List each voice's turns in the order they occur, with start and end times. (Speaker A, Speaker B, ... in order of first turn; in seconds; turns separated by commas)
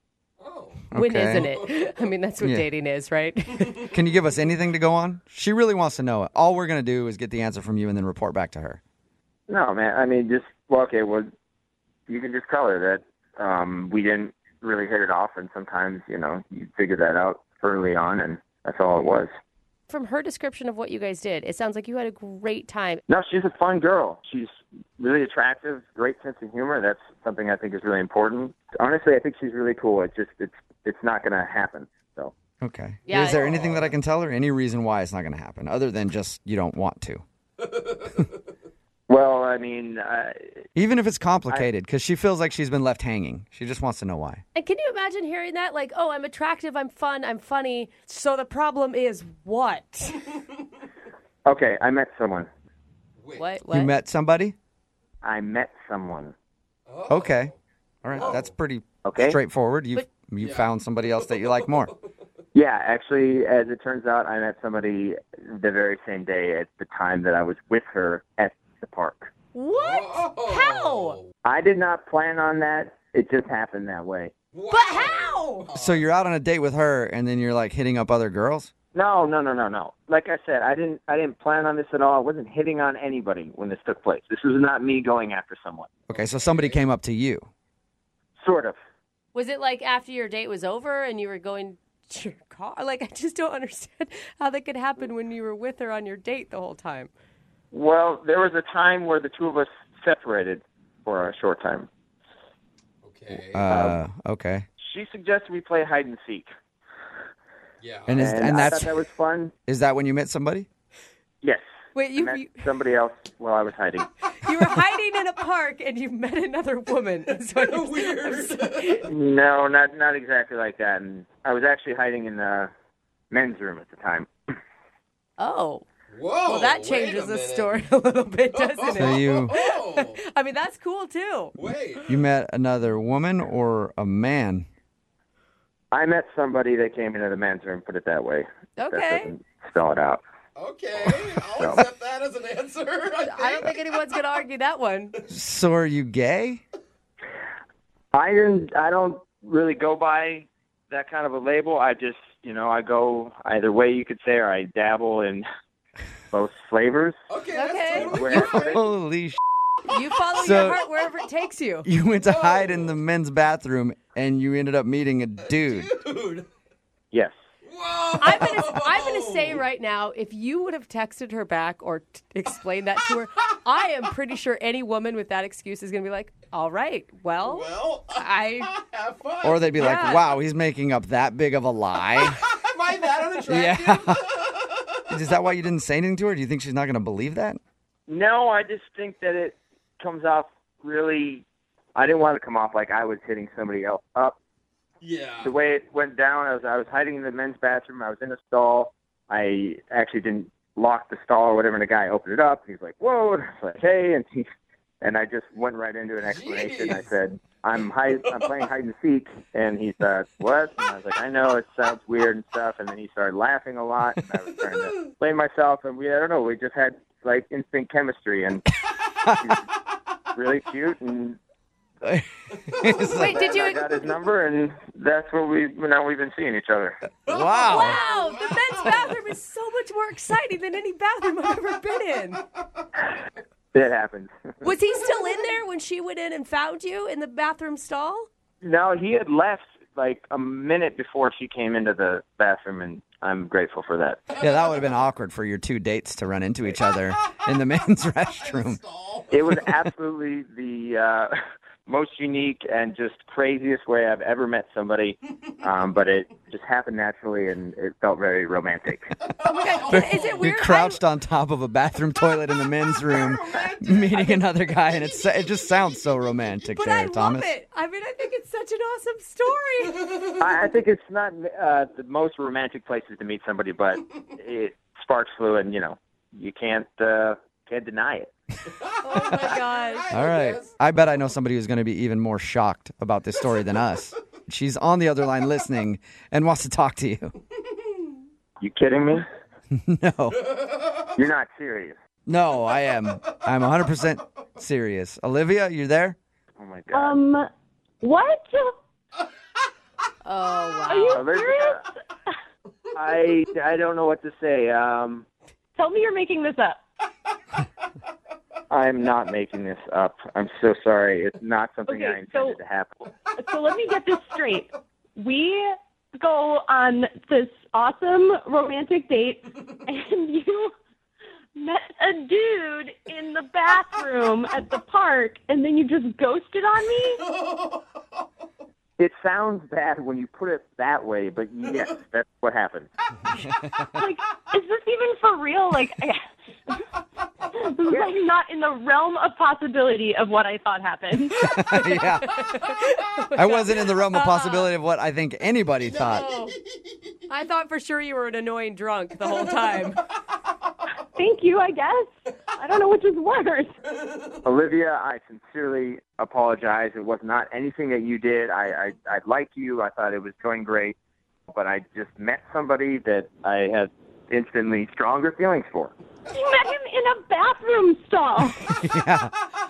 Speaker A: 0.4-1.7, Speaker B: 0.9-1.5, Speaker C: 0.9-3.9, Speaker B: 3.9-8.8, Speaker D: 9.5-11.3, Speaker D: 12.1-19.3, Speaker C: 19.9-23.0, Speaker D: 23.1-32.3, Speaker B: 32.6-37.2, Speaker C: 33.1-33.5, Speaker A: 33.1-33.9, Speaker A: 37.7-38.1, Speaker D: 39.1-40.4, Speaker B: 40.8-44.4, Speaker C: 44.5-50.3, Speaker D: 51.4-52.5, Speaker A: 53.2-53.5, Speaker C: 53.3-53.9, Speaker B: 53.7-54.5, Speaker D: 55.2-56.3, Speaker A: 56.9-57.5, Speaker B: 57.1-57.5, Speaker B: 58.0-61.9, Speaker A: 58.1-58.5, Speaker D: 59.0-59.4, Speaker A: 60.4-60.7, Speaker D: 62.5-69.3, Speaker C: 69.5-71.2, Speaker A: 69.7-71.3, Speaker D: 71.4-74.3, Speaker A: 74.5-76.0, Speaker C: 74.7-75.7, Speaker B: 75.7-78.7, Speaker D: 78.9-85.9, Speaker A: 86.1-86.8, Speaker B: 86.1-87.5, Speaker D: 88.4-88.8, Speaker C: 89.3-97.1, Speaker D: 97.7-101.9, Speaker A: 103.0-103.7, Speaker B: 103.5-104.6, Speaker D: 103.7-104.0, Speaker D: 104.8-106.5, Speaker A: 107.8-108.2, Speaker B: 108.1-108.9, Speaker D: 108.2-109.5, Speaker B: 109.7-110.7, Speaker D: 111.4-114.1, Speaker C: 111.9-112.7, Speaker C: 114.4-119.1, Speaker A: 117.5-119.0, Speaker D: 119.1-122.7, Speaker D: 123.3-124.3, Speaker C: 125.4-125.8, Speaker A: 126.1-127.7, Speaker C: 126.4-131.6, Speaker A: 128.5-130.2, Speaker B: 128.9-129.5, Speaker A: 131.6-132.1, Speaker B: 132.1-134.7, Speaker D: 135.9-140.2, Speaker C: 138.8-139.3, Speaker A: 140.6-143.8, Speaker D: 141.1-141.8, Speaker C: 143.2-145.2, Speaker B: 145.3-146.6, Speaker D: 148.1-155.4, Speaker D: 156.3-157.2, Speaker A: 157.3-158.8, Speaker C: 157.5-158.3, Speaker D: 157.9-158.8, Speaker B: 158.3-159.4, Speaker C: 159.9-161.9, Speaker B: 160.3-160.8, Speaker B: 161.8-165.9, Speaker A: 162.2-162.9, Speaker A: 165.7-166.4, Speaker A: 167.6-169.6, Speaker C: 168.2-178.8, Speaker A: 177.4-179.8, Speaker B: 179.4-182.4, Speaker C: 179.7-180.2, Speaker A: 182.3-185.0, Speaker B: 183.5-184.3, Speaker B: 185.1-187.6, Speaker D: 188.1-191.4, Speaker D: 191.9-194.3, Speaker A: 195.0-195.5, Speaker D: 195.4-204.4, Speaker D: 205.0-218.7, Speaker A: 206.3-207.1, Speaker B: 219.2-219.5, Speaker D: 220.3-221.4, Speaker B: 222.0-223.4, Speaker C: 223.1-223.8, Speaker D: 223.1-227.0, Speaker B: 227.3-228.0, Speaker A: 227.3-229.2, Speaker C: 227.4-232.4, Speaker D: 233.7-234.3, Speaker C: 234.6-238.3, Speaker D: 238.6-244.2, Speaker B: 244.4-248.8, Speaker A: 248.4-249.7, Speaker D: 249.3-251.3, Speaker D: 251.8-259.1, Speaker A: 259.3-260.4, Speaker C: 259.4-261.0, Speaker B: 259.9-267.5, Speaker A: 263.1-265.3, Speaker C: 266.8-270.0, Speaker D: 270.4-278.3, Speaker A: 278.8-280.7, Speaker C: 279.0-280.1, Speaker B: 280.1-287.3, Speaker D: 288.6-289.2, Speaker B: 289.7-290.4, Speaker A: 290.6-290.9, Speaker D: 291.1-291.9, Speaker B: 292.2-296.2, Speaker D: 296.6-297.2, Speaker E: 296.9-297.5, Speaker E: 298.0-298.8, Speaker C: 300.2-301.2, Speaker E: 300.9-301.8, Speaker D: 301.1-301.8, Speaker D: 302.9-305.2, Speaker E: 305.8-306.8, Speaker D: 308.7-313.1, Speaker E: 311.9-312.6, Speaker E: 313.3-320.7, Speaker E: 321.5-327.3, Speaker A: 327.5-327.8, Speaker D: 329.0-332.9, Speaker E: 333.9-336.7, Speaker E: 337.5-341.4, Speaker D: 337.9-338.1, Speaker B: 341.4-342.3, Speaker C: 341.4-344.7, Speaker B: 343.3-346.3, Speaker C: 346.0-346.6, Speaker C: 347.3-350.0, Speaker E: 351.1-353.7, Speaker A: 354.0-354.4, Speaker D: 354.4-360.9, Speaker D: 361.5-365.9, Speaker E: 366.3-368.7, Speaker B: 368.7-369.3